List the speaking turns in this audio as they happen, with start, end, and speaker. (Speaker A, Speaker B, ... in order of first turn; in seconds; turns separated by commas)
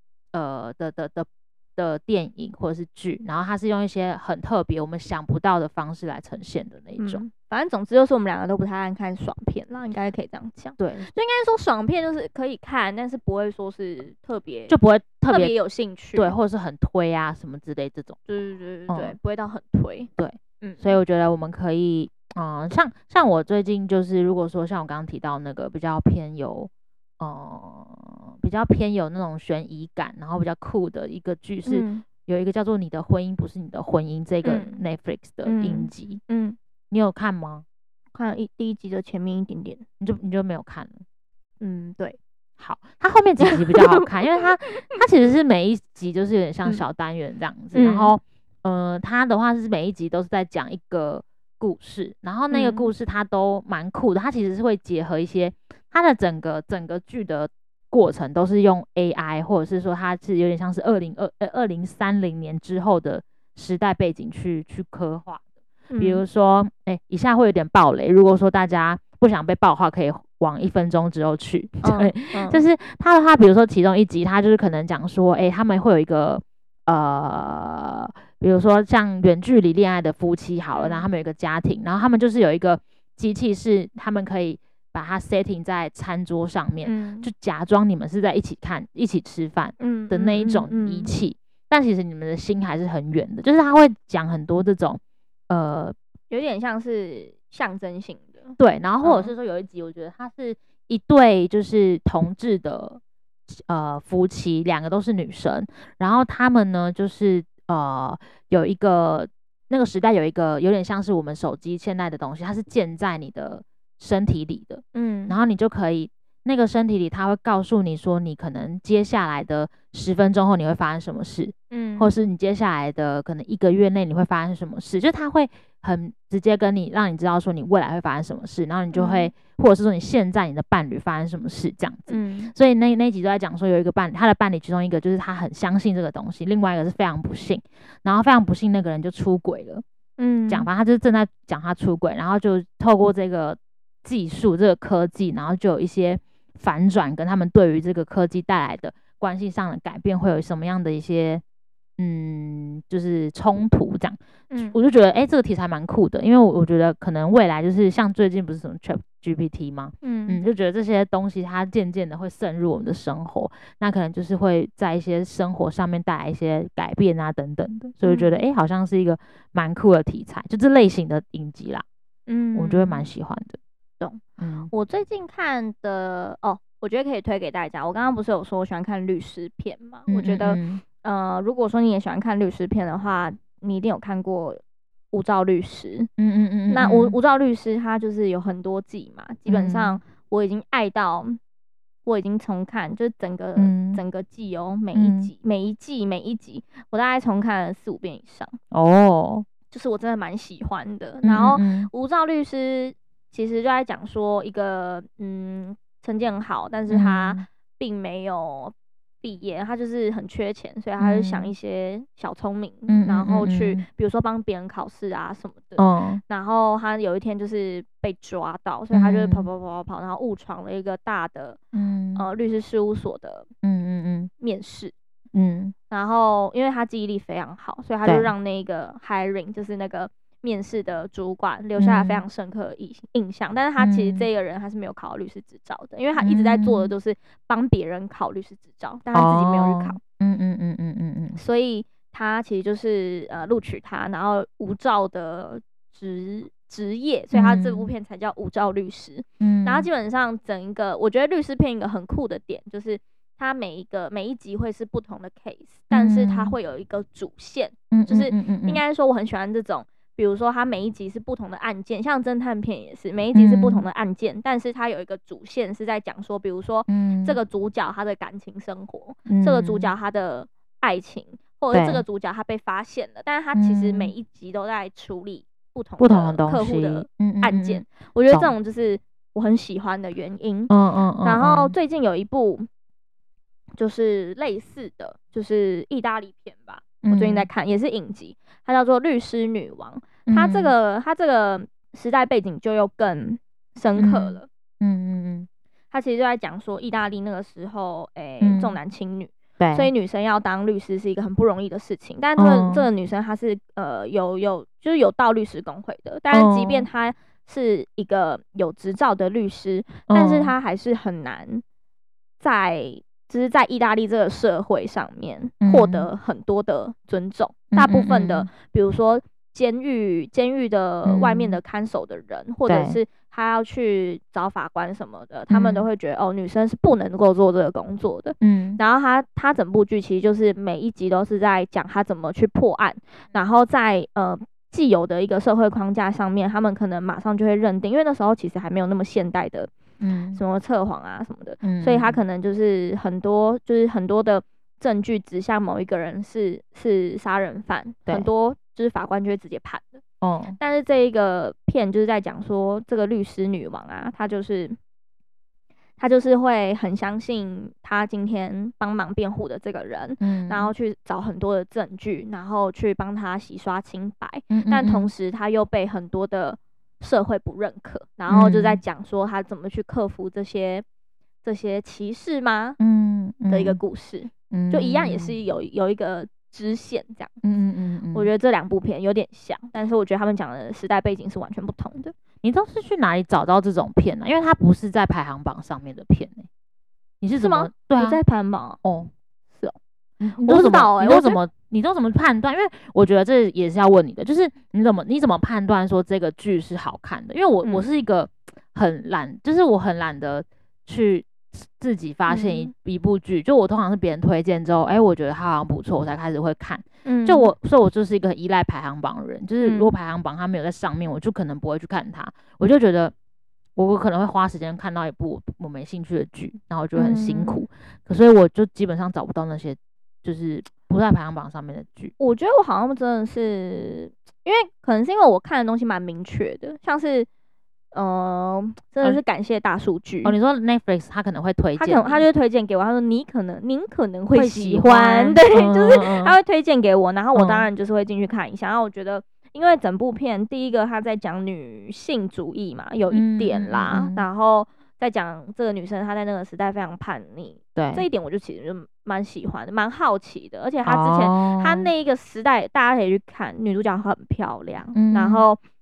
Speaker A: 0.3-7.2, Speaker B: 7.0-16.3, Speaker A: 10.8-11.1, Speaker A: 14.7-15.5, Speaker A: 16.1-18.2, Speaker B: 18.3-20.9, Speaker A: 18.9-19.1, Speaker A: 20.2-36.2, Speaker B: 31.6-32.0, Speaker B: 34.4-34.8, Speaker B: 35.4-36.6, Speaker A: 36.9-37.6, Speaker B: 38.1-39.8, Speaker A: 40.0-41.0, Speaker B: 41.6-42.2, Speaker A: 42.6-65.4, Speaker B: 43.4-44.0, Speaker B: 47.7-48.1, Speaker B: 52.5-52.9, Speaker B: 65.9-66.2, Speaker A: 66.0-95.9, Speaker B: 71.8-72.6, Speaker B: 80.7-81.0, Speaker B: 86.8-87.3, Speaker B: 89.8-91.1, Speaker B: 96.3-99.3, Speaker A: 98.6-103.0, Speaker A: 103.5-139.8, Speaker B: 114.9-115.3, Speaker B: 121.7-122.1, Speaker B: 128.9-129.3, Speaker B: 132.1-132.5, Speaker B: 140.2-140.7, Speaker A: 140.5-151.4, Speaker A: 152.0-171.8, Speaker B: 154.5-154.8, Speaker B: 160.0-160.4, Speaker B: 168.0-168.4, Speaker B: 172.3-173.0, Speaker A: 172.5-173.6, Speaker B: 174.0-184.6, Speaker A: 174.4-174.7, Speaker A: 180.1-180.8, Speaker B: 185.1-186.1, Speaker A: 186.2-187.2, Speaker B: 186.7-191.4, Speaker A: 189.5-190.0, Speaker B: 192.1-198.6, Speaker A: 193.6-194.0, Speaker A: 194.9-195.3, Speaker A: 198.7-199.4, Speaker B: 199.7-221.6, Speaker A: 201.2-201.9, Speaker A: 206.9-207.4, Speaker A: 211.0-211.5, Speaker A: 212.9-213.8, Speaker A: 215.8-216.2, Speaker A: 218.9-219.5, Speaker A: 221.7-222.2, Speaker B: 222.2-223.5, Speaker A: 223.6-224.3, Speaker B: 224.4-224.9, Speaker A: 225.3-225.7, Speaker B: 225.9-240.0, Speaker A: 228.0-228.3, Speaker A: 231.8-232.2, Speaker A: 233.8-234.2, Speaker A: 236.2-236.9, Speaker A: 239.1-241.4, Speaker B: 241.3-282.7, Speaker A: 247.3-247.9, Speaker A: 249.4-249.9, Speaker A: 255.9-256.5, Speaker A: 257.9-258.8, Speaker A: 263.3-263.8, Speaker A: 266.9-267.4, Speaker A: 269.3-269.9, Speaker A: 271.7-272.0, Speaker A: 273.5-274.1, Speaker A: 276.0-278.5, Speaker A: 280.7-281.8, Speaker B: 283.8-294.5, Speaker A: 287.0-287.5, Speaker A: 290.3-290.7, Speaker A: 294.0-295.5, Speaker B: 295.9-311.6, Speaker A: 298.4-298.8, Speaker A: 299.6-299.9, Speaker A: 302.4-302.9, Speaker A: 306.3-306.9, Speaker A: 310.1-310.5, Speaker B: 312.4-339.7, Speaker A: 315.6-316.1, Speaker A: 317.7-318.5, Speaker A: 321.0-321.6, Speaker A: 322.7-323.0, Speaker A: 325.5-325.9, Speaker A: 328.4-328.8, Speaker A: 340.0-340.4, Speaker B: 340.3-350.0, Speaker A: 341.6-342.2, Speaker A: 350.2-350.6, Speaker B: 350.6-354.8, Speaker B: 356.0-370.8, Speaker A: 360.2-360.7, Speaker A: 364.5-365.1, Speaker A: 368.3-368.8, Speaker B: 371.4-372.8, Speaker A: 372.8-373.8, Speaker B: 373.5-377.4, Speaker A: 374.5-375.4, Speaker A: 377.4-378.3, Speaker B: 378.1-382.1, Speaker A: 382.4-386.5, Speaker A: 387.2-388.2, Speaker B: 387.4-388.8, Speaker A: 388.8-389.1, Speaker A: 390.2-413.1, Speaker B: 390.4-391.4, Speaker B: 402.3-402.7, Speaker B: 407.0-407.5, Speaker B: 409.6-409.9, Speaker A: 413.8-422.1, Speaker B: 416.9-417.6, Speaker B: 422.2-427.3, Speaker B: 427.9-430.3, Speaker A: 430.2-432.3, Speaker B: 431.8-455.6, Speaker A: 434.3-436.4, Speaker A: 437.3-437.7, Speaker A: 443.1-444.2, Speaker A: 447.7-448.1, Speaker A: 450.8-451.9, Speaker A: 454.9-455.4